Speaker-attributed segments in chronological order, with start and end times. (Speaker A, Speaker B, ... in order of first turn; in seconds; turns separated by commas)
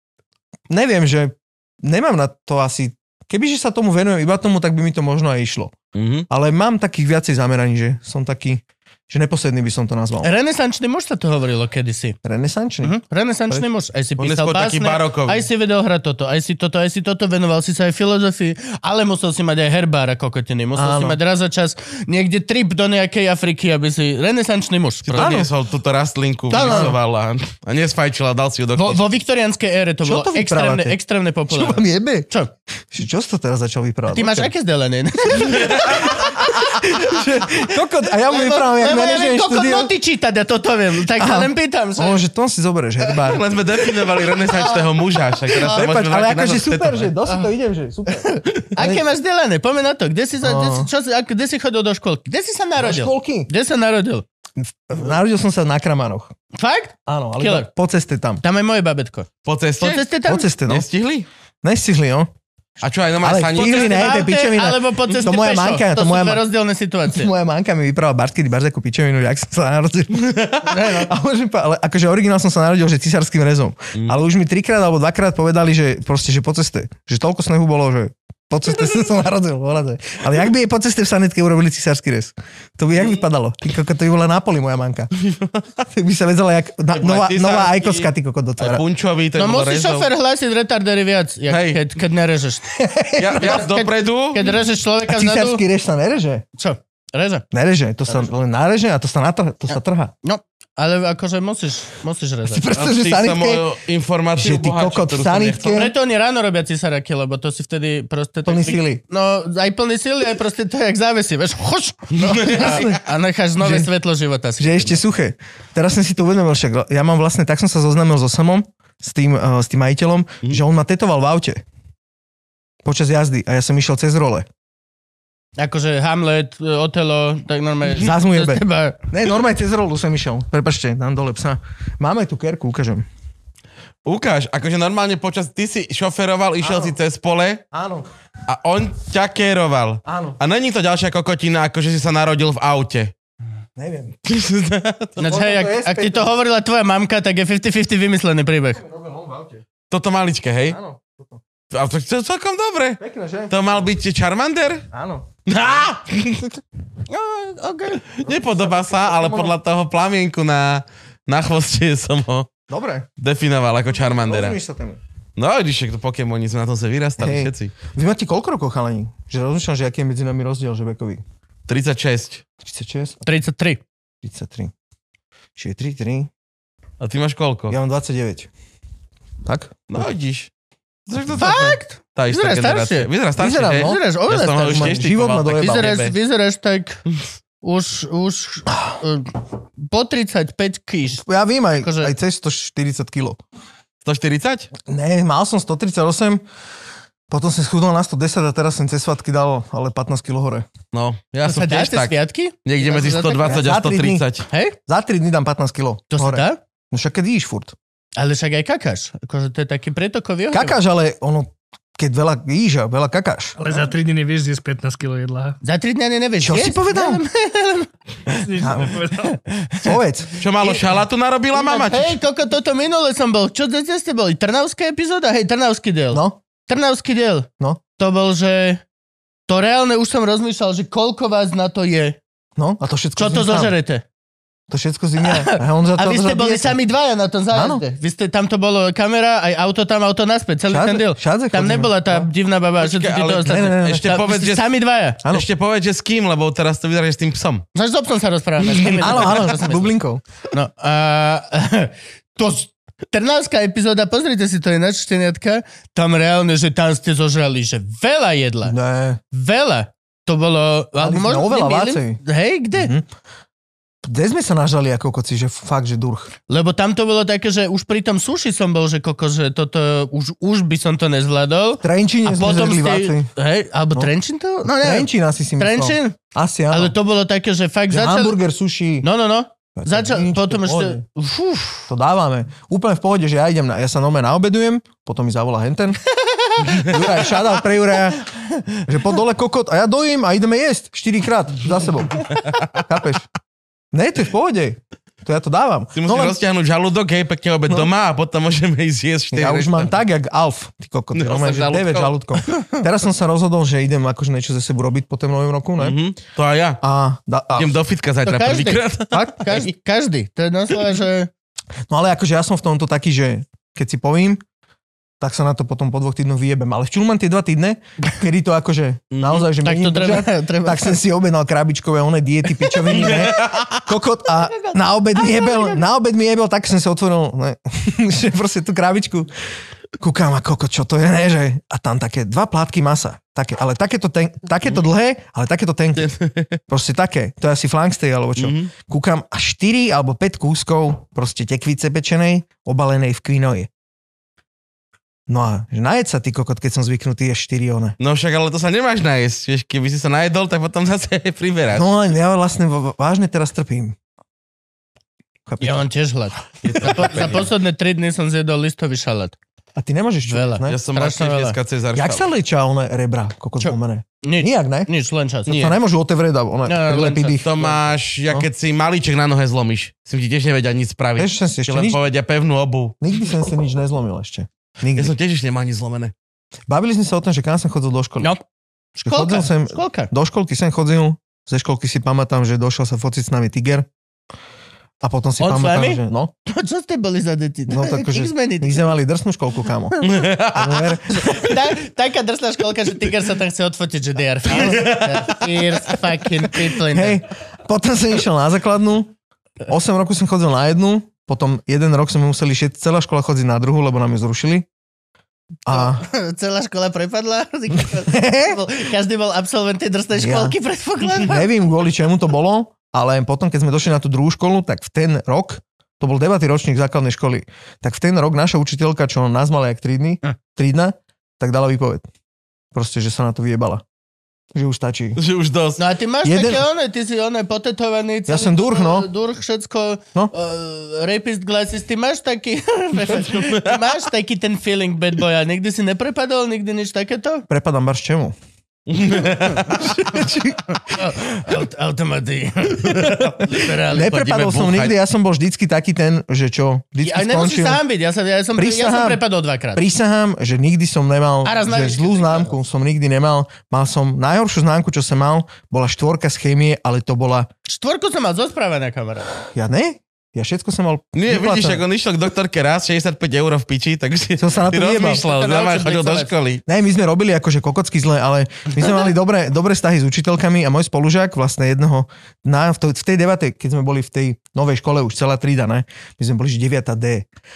Speaker A: 0.7-5.8, Speaker B: 5.9-6.3, Speaker A: 6.3-10.3, Speaker C: 10.2-12.2, Speaker A: 12.2-13.0, Speaker C: 12.8-25.5, Speaker B: 14.2-15.5, Speaker A: 20.8-21.2, Speaker B: 25.1-29.0, Speaker A: 25.2-25.5, Speaker A: 26.5-27.0, Speaker C: 26.5-26.9, Speaker C: 28.8-32.5, Speaker A: 30.0-31.0, Speaker A: 31.5-32.3, Speaker A: 32.9-34.5, Speaker C: 34.1-37.6, Speaker B: 35.5-36.2, Speaker A: 35.5-39.9, Speaker C: 38.2-42.2, Speaker A: 41.1-43.4, Speaker B: 43.2-47.1, Speaker C: 44.4-44.9, Speaker C: 45.5-45.9, Speaker A: 45.6-49.0, Speaker C: 48.1-54.2, Speaker A: 50.4-50.9, Speaker A: 52.8-53.5, Speaker A: 54.6-56.3, Speaker C: 56.5-57.7, Speaker A: 57.1-58.4, Speaker C: 58.4-59.3, Speaker B: 59.5-60.0, Speaker C: 59.8-60.5, Speaker A: 60.3-60.9, Speaker B: 60.7-61.3, Speaker A: 61.6-62.3, Speaker B: 62.8-64.1, Speaker A: 63.2-66.4, Speaker C: 63.6-67.3, Speaker A: 67.1-85.1, Speaker B: 70.2-70.6, Speaker C: 70.6-71.1, Speaker B: 85.2-85.6, Speaker A: 85.9-88.8, Speaker B: 86.9-90.1, Speaker C: 89.4-92.7, Speaker B: 91.5-91.8, Speaker A: 92.7-93.7, Speaker B: 93.2-94.4, Speaker C: 93.4-95.6, Speaker A: 95.1-96.4, Speaker C: 96.6-97.5, Speaker A: 97.5-100.1, Speaker C: 100.2-102.6, Speaker A: 102.5-103.6, Speaker B: 102.7-105.8, Speaker A: 104.4-105.9, Speaker C: 105.7-115.0, Speaker A: 108.5-109.0, Speaker B: 112.2-113.0, Speaker A: 112.5-113.0, Speaker A: 113.6-113.9, Speaker A: 114.6-121.6, Speaker A: 122.8-124.5, Speaker C: 125.6-129.1, Speaker A: 127.9-133.1, Speaker B: 134.1-137.6, Speaker A: 136.6-137.0, Speaker A: 137.7-138.1, Speaker B: 138.5-143.1, Speaker A: 140.1-140.4, Speaker A: 143.8-144.2, Speaker B: 144.3-145.2, Speaker C: 145.2-148.8, Speaker A: 145.2-146.3, Speaker A: 148.8-149.7, Speaker B: 149.9-150.8, Speaker A: 150.7-151.4, Speaker B: 151.7-154.9, Speaker A: 153.0-153.8, Speaker A: 154.9-155.3, Speaker B: 155.5-156.6, Speaker C: 157.1-158.1, Speaker B: 158.2-162.5, Speaker A: 158.3-159.5, Speaker A: 162.7-163.1, Speaker B: 163.2-164.6, Speaker A: 164.0-165.0, Speaker B: 165.4-167.7, Speaker A: 167.2-171.2, Speaker B: 171.7-172.4, Speaker A: 172.6-173.2, Speaker C: 173.2-173.8, Speaker A: 174.2-174.7, Speaker A: 175.6-176.3, Speaker B: 177.0-177.8, Speaker A: 177.7-178.5, Speaker A: 179.4-180.1, Speaker B: 179.9-180.5, Speaker B: 181.1-186.2, Speaker C: 181.3-183.1, Speaker A: 183.4-184.0, Speaker C: 183.8-184.9, Speaker A: 184.6-185.9, Speaker C: 185.5-187.0, Speaker C: 187.6-191.2, Speaker A: 191.2-193.4, Speaker C: 191.8-192.1, Speaker B: 194.0-194.7, Speaker A: 194.8-196.4, Speaker A: 197.3-200.7, Speaker B: 200.9-204.5, Speaker C: 201.4-203.6, Speaker A: 203.4-204.3, Speaker C: 204.5-204.8, Speaker A: 204.9-207.7, Speaker C: 206.1-206.6, Speaker C: 208.2-210.8, Speaker A: 210.5-213.6, Speaker D: 213.6-215.6, Speaker C: 215.6-218.4, Speaker A: 216.4-217.2, Speaker D: 218.3-219.4, Speaker A: 218.6-219.0, Speaker C: 219.2-220.0, Speaker A: 219.8-220.4, Speaker B: 220.4-222.2, Speaker C: 220.6-220.9, Speaker C: 221.5-228.8, Speaker A: 226.1-226.4, Speaker C: 229.5-232.2, Speaker A: 232.6-233.8, Speaker C: 233.2-234.0, Speaker A: 234.7-236.8, Speaker C: 235.2-245.2, Speaker A: 237.5-237.8, Speaker A: 240.7-242.3, Speaker B: 242.8-244.7, Speaker A: 243.5-244.1, Speaker B: 245.2-247.7, Speaker C: 247.8-249.9, Speaker B: 248.7-249.3, Speaker A: 248.9-250.2, Speaker C: 250.5-258.8, Speaker A: 258.6-259.2, Speaker C: 259.3-262.9, Speaker A: 261.0-262.2, Speaker A: 262.8-263.1, Speaker A: 264.0-266.3, Speaker C: 266.5-276.2, Speaker A: 271.8-273.3, Speaker A: 274.7-276.9, Speaker C: 276.7-278.4, Speaker A: 277.9-279.1, Speaker C: 279.0-281.9, Speaker A: 279.8-281.0, Speaker A: 281.9-286.0, Speaker C: 286.1-287.3, Speaker A: 286.8-288.2, Speaker C: 288.3-288.8, Speaker A: 288.8-293.3, Speaker A: 293.9-296.4, Speaker B: 295.9-299.9, Speaker A: 299.3-306.0, Speaker B: 301.1-302.2, Speaker B: 305.8-306.8, Speaker A: 306.8-307.8, Speaker B: 307.6-309.7, Speaker C: 308.2-311.3, Speaker A: 311.9-314.4, Speaker A: 315.2-329.3, Speaker B: 319.1-319.5, Speaker C: 319.6-321.0, Speaker C: 322.8-323.1, Speaker B: 322.9-323.8, Speaker C: 324.4-325.8, Speaker A: 330.0-336.1, Speaker B: 336.0-336.6, Speaker A: 336.7-343.7, Speaker B: 338.4-338.7, Speaker A: 345.3-348.0, Speaker B: 348.0-351.9, Speaker A: 351.7-354.0, Speaker A: 355.5-355.9, Speaker C: 355.6-359.4, Speaker B: 356.6-357.5, Speaker A: 359.8-360.8, Speaker C: 360.3-361.6, Speaker B: 360.7-362.3, Speaker A: 361.9-364.9, Speaker C: 363.6-365.6, Speaker B: 365.5-365.8, Speaker A: 365.5-367.5, Speaker C: 366.7-367.8, Speaker B: 367.4-373.0, Speaker A: 371.2-372.0, Speaker A: 373.0-375.1, Speaker B: 374.9-376.1, Speaker A: 376.7-378.3, Speaker C: 379.0-380.1, Speaker A: 379.0-383.9, Speaker A: 385.0-386.3, Speaker C: 385.4-388.9, Speaker A: 387.7-391.3, Speaker B: 390.0-391.0, Speaker C: 391.2-397.2, Speaker B: 394.5-396.0, Speaker A: 396.8-399.1, Speaker A: 399.7-404.7, Speaker A: 405.7-406.0, Speaker C: 405.7-411.5, Speaker A: 407.8-408.6, Speaker A: 410.1-410.6, Speaker A: 411.2-422.1, Speaker A: 422.7-423.8, Speaker A: 424.5-425.2, Speaker B: 425.2-425.8, Speaker C: 425.8-437.5, Speaker A: 426.2-426.6, Speaker A: 428.3-429.1, Speaker B: 433.1-433.8, Speaker A: 437.5-438.4, Speaker B: 438.9-440.5, Speaker A: 439.8-440.8, Speaker C: 440.9-444.3, Speaker B: 442.9-445.0, Speaker A: 443.9-447.8, Speaker C: 447.0-449.8, Speaker A: 448.6-449.2, Speaker A: 449.8-457.5, Speaker C: 451.4-452.6, Speaker C: 457.7-459.3, Speaker A: 459.4-461.8, Speaker B: 461.1-466.6, Speaker A: 464.4-465.2, Speaker C: 465.0-466.3, Speaker A: 466.7-477.3